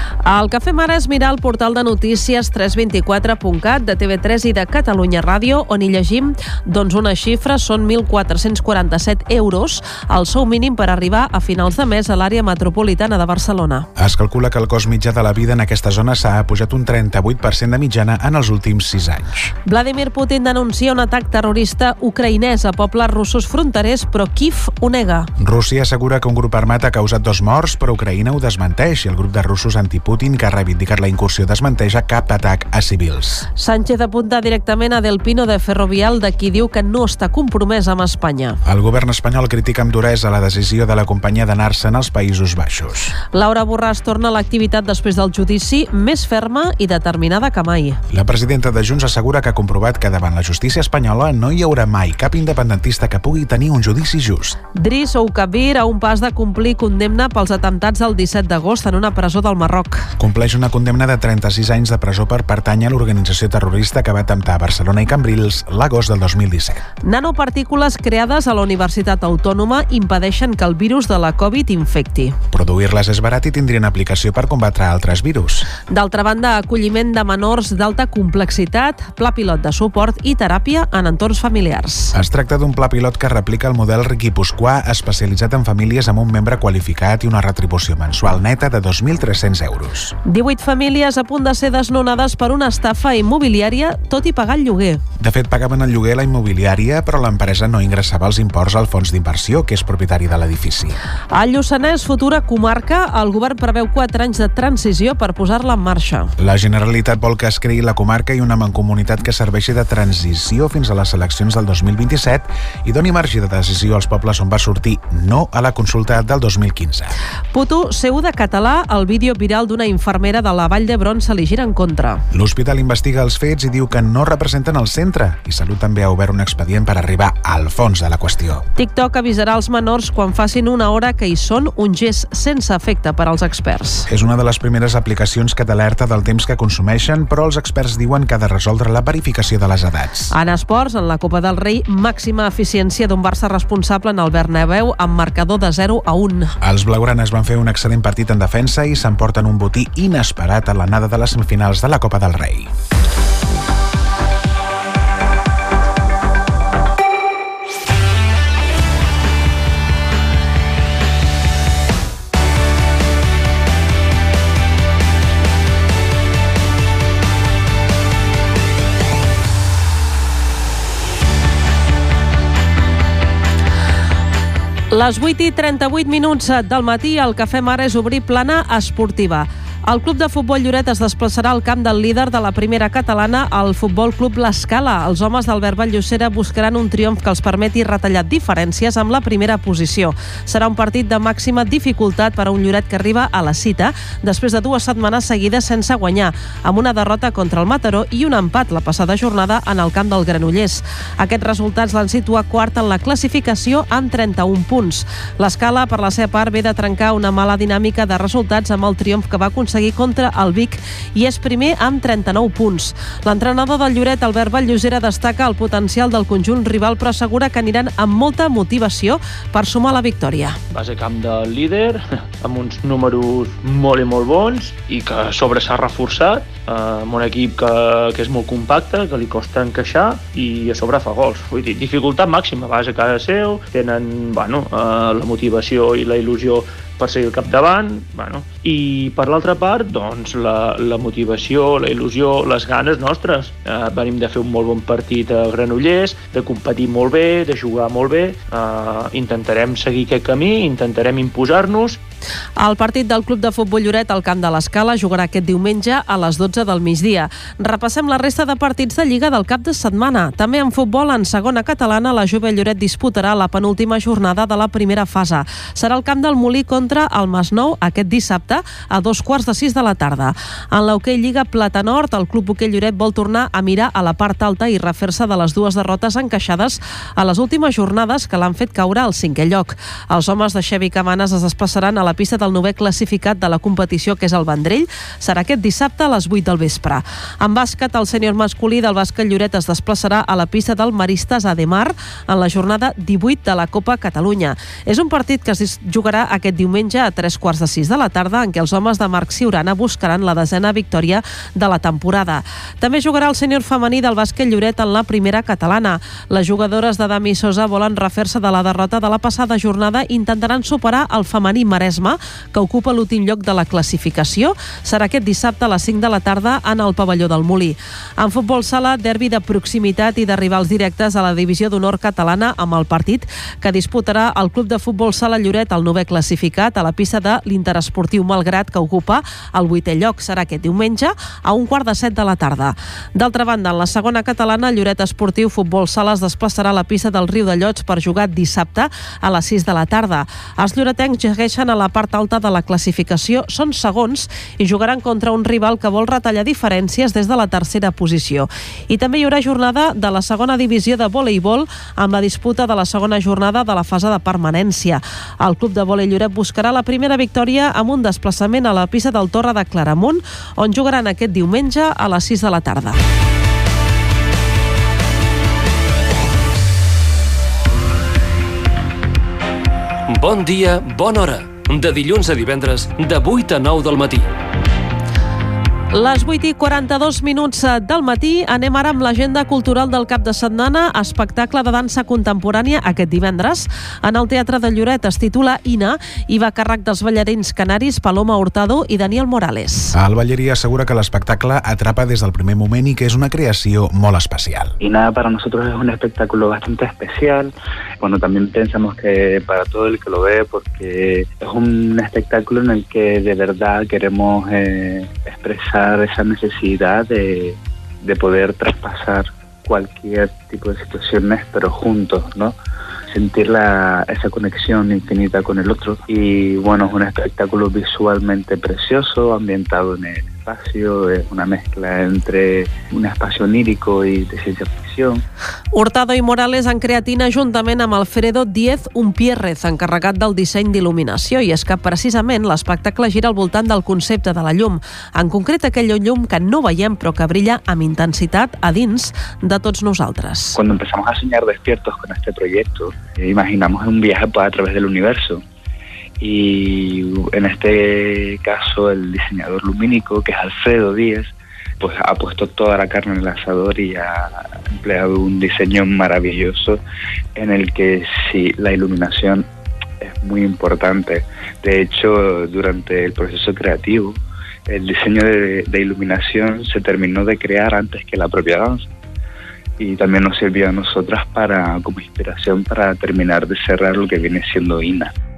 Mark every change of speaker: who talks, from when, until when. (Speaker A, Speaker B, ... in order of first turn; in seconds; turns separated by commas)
Speaker A: 0.2-13.9, Speaker B: 13.9-19.5, Speaker A: 19.7-25.3, Speaker B: 25.4-33.5, Speaker A: 33.6-38.6, Speaker B: 38.6-43.1, Speaker A: 43.3-48.0, Speaker B: 48.1-54.6, Speaker A: 54.8-60.1, Speaker B: 60.2-66.8, Speaker A: 67.0-72.4, Speaker B: 72.5-75.7, Speaker A: 75.9-82.1, Speaker B: 82.1-90.1, Speaker A: 90.2-95.0, Speaker B: 95.2-101.0, Speaker A: 101.3-106.3, Speaker B: 106.4-117.1, Speaker A: 117.5-122.2, Speaker B: 122.3-128.6, Speaker A: 128.8-134.1, Speaker B: 134.1-140.3, Speaker A: 140.3-146.5, Speaker B: 146.6-152.7, Speaker A: 174.9-220.6, Speaker C: 220.7-252.0, Speaker A: 252.6-363.0, Speaker D: 370.1-374.3, Speaker A: 375.9-389.9, Speaker B: 389.9-394.7, Speaker E: 394.8-412.5, Speaker E: 413.1-425.2, Speaker A: 425.7-440.6, Speaker E: 440.5-445.4, Speaker E: 446.2-456.8, Speaker E: 457.4-459.4, Speaker E: 460.0-464.2, Speaker E: 464.7-468.9, Speaker E: 469.8-475.1